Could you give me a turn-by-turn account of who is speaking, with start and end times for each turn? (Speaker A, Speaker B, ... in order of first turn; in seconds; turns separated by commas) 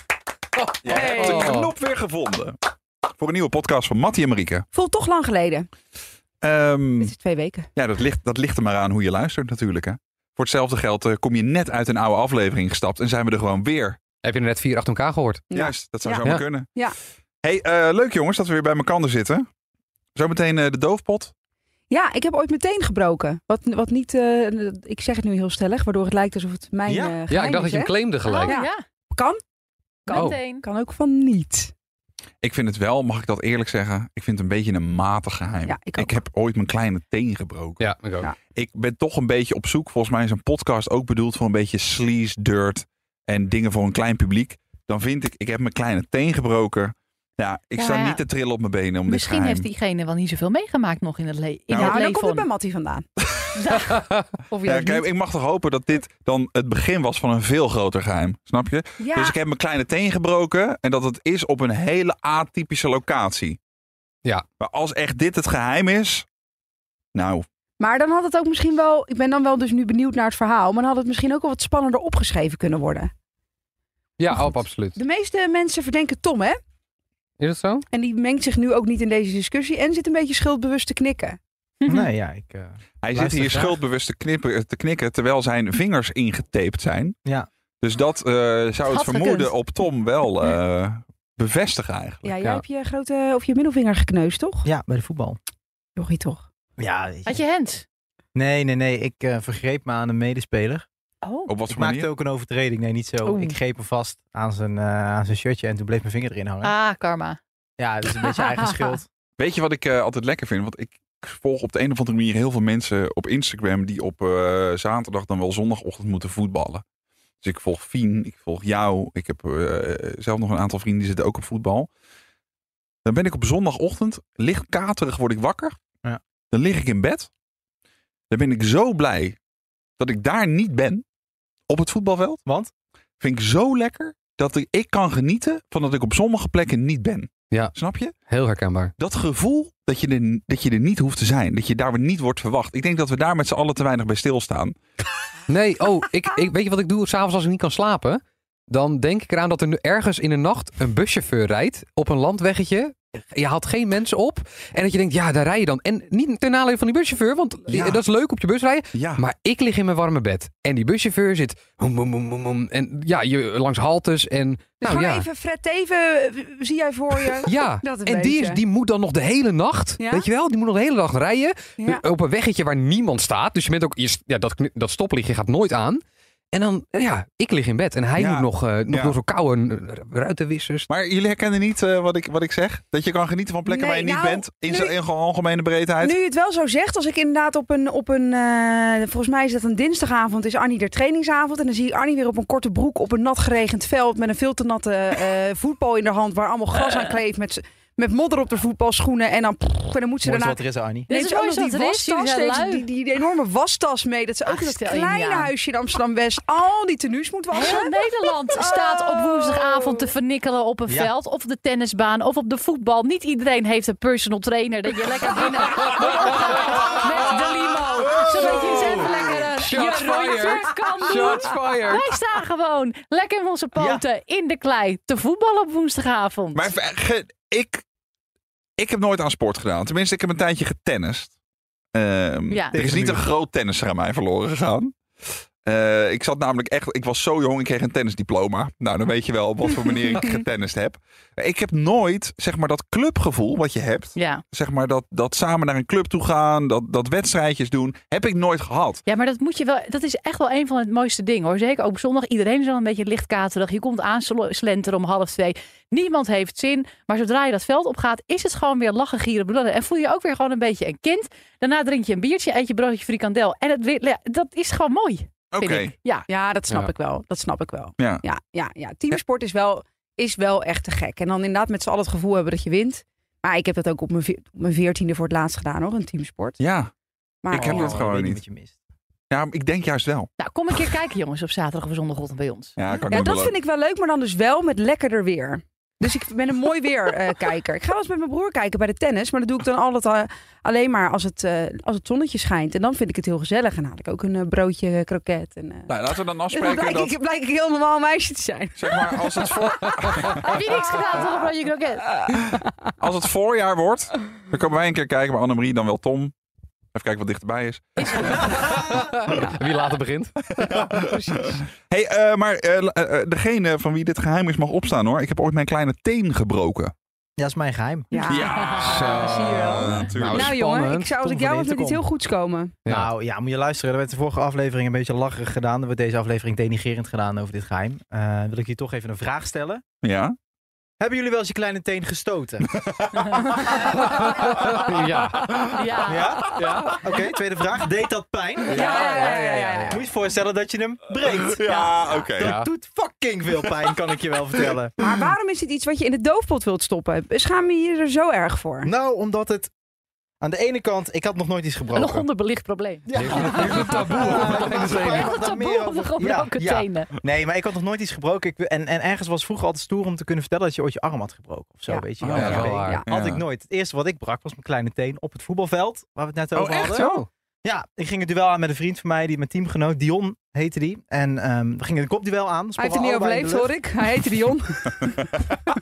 Speaker A: 0.6-1.7, Speaker B: 0.8-2.6, Speaker C: 0.8-1.5, Speaker B: 3.1-4.7, Speaker C: 4.7-5.7, Speaker B: 6.4-7.1, Speaker C: 7.0-7.7, Speaker B: 7.8-14.0, Speaker A: 14.2-15.4, Speaker C: 15.5-16.9, Speaker B: 15.5-16.7, Speaker B: 17.4-19.5, Speaker B: 20.1-21.3, Speaker C: 21.9-29.4, Speaker D: 26.9-27.2, Speaker A: 27.3-28.6, Speaker E: 28.2-28.8, Speaker C: 30.1-31.7, Speaker E: 30.1-30.6, Speaker A: 30.1-30.4, Speaker B: 32.4-37.8, Speaker C: 35.6-36.2, Speaker A: 37.8-38.3, Speaker B: 38.5-49.6, Speaker E: 47.8-48.2, Speaker E: 49.1-52.5, Speaker B: 51.7-52.0, Speaker C: 51.7-53.0, Speaker E: 53.6-53.9, Speaker A: 53.9-54.2, Speaker C: 54.5-55.1, Speaker B: 54.6-63.6, Speaker C: 59.0-59.4, Speaker B: 64.6-66.3, Speaker B: 67.1-67.4, Speaker C: 67.8-73.1, Speaker A: 74.2-75.0, Speaker C: 74.3-76.6, Speaker A: 77.4-77.8, Speaker C: 77.9-81.4, Speaker E: 81.8-82.1, Speaker D: 81.9-83.8, Speaker B: 83.0-87.2, Speaker B: 87.8-92.3, Speaker E: 88.9-89.5, Speaker C: 92.2-94.7, Speaker D: 94.6-95.4, Speaker C: 96.0-96.5, Speaker D: 96.8-97.4, Speaker E: 97.2-97.8, Speaker D: 98.3-100.8, Speaker E: 101.2-101.5, Speaker B: 101.5-102.1, Speaker D: 101.7-106.7, Speaker E: 103.2-103.5, Speaker E: 106.6-107.4, Speaker D: 107.8-109.0, Speaker B: 109.4-116.8, Speaker B: 117.4-121.9, Speaker B: 123.0-125.8, Speaker B: 126.5-127.3, Speaker B: 128.3-129.4, Speaker B: 130.0-131.0, Speaker B: 131.7-132.4, Speaker D: 132.4-132.7, Speaker B: 133.2-138.1, Speaker A: 137.5-137.7, Speaker A: 138.2-138.9, Speaker B: 139.0-144.8, Speaker A: 145.5-165.3, Speaker B: 157.7-158.0, Speaker B: 158.9-159.2, Speaker C: 164.8-168.6, Speaker A: 167.4-180.9, Speaker C: 170.0-170.3, Speaker C: 171.8-172.0, Speaker B: 178.2-179.2, Speaker B: 180.9-186.2, Speaker C: 183.7-185.0, Speaker C: 186.0-210.1, Speaker D: 200.2-201.1, Speaker E: 201.1-202.8, Speaker E: 204.4-205.5, Speaker E: 207.5-226.7, Speaker D: 218.6-219.1, Speaker A: 219.5-222.1, Speaker D: 223.8-224.0, Speaker B: 226.5-227.8, Speaker B: 228.8-231.3, Speaker B: 231.9-249.0, Speaker D: 232.7-233.2, Speaker E: 244.2-244.4, Speaker E: 249.1-266.2, Speaker B: 265.5-265.9, Speaker C: 266.3-276.6, Speaker B: 268.0-268.2, Speaker B: 276.6-276.9, Speaker C: 277.4-278.0, Speaker B: 277.5-278.4, Speaker D: 277.5-278.7, Speaker B: 279.3-280.3, Speaker E: 280.4-282.7, Speaker B: 282.8-283.5, Speaker C: 283.1-295.9, Speaker B: 295.9-297.1, Speaker C: 296.5-301.4, Speaker B: 298.8-300.6, Speaker E: 300.4-302.1, Speaker C: 302.1-302.7, Speaker B: 302.5-306.3, Speaker B: 306.9-308.5, Speaker E: 308.0-308.3, Speaker A: 308.1-311.1, Speaker B: 310.6-316.9, Speaker C: 311.1-311.4, Speaker D: 317.4-318.1, Speaker C: 318.1-322.8, Speaker B: 318.3-320.5, Speaker A: 318.8-322.0, Speaker A: 322.8-323.1, Speaker D: 322.9-329.8, Speaker B: 330.0-330.4, Speaker D: 331.0-332.8, Speaker B: 332.7-333.5, Speaker A: 333.9-335.7, Speaker E: 335.6-336.5, Speaker D: 336.0-345.0, Speaker A: 336.5-337.0, Speaker C: 338.7-340.0, Speaker A: 338.7-340.0, Speaker B: 341.3-342.5, Speaker A: 342.4-342.7, Speaker C: 345.0-348.9, Speaker D: 348.8-349.7, Speaker D: 350.4-352.2, Speaker E: 351.9-357.1, Speaker D: 353.1-373.7, Speaker A: 353.1-355.4, Speaker C: 361.9-363.1, Speaker B: 362.2-363.4, Speaker A: 362.3-363.1, Speaker B: 366.5-367.2, Speaker C: 372.8-375.2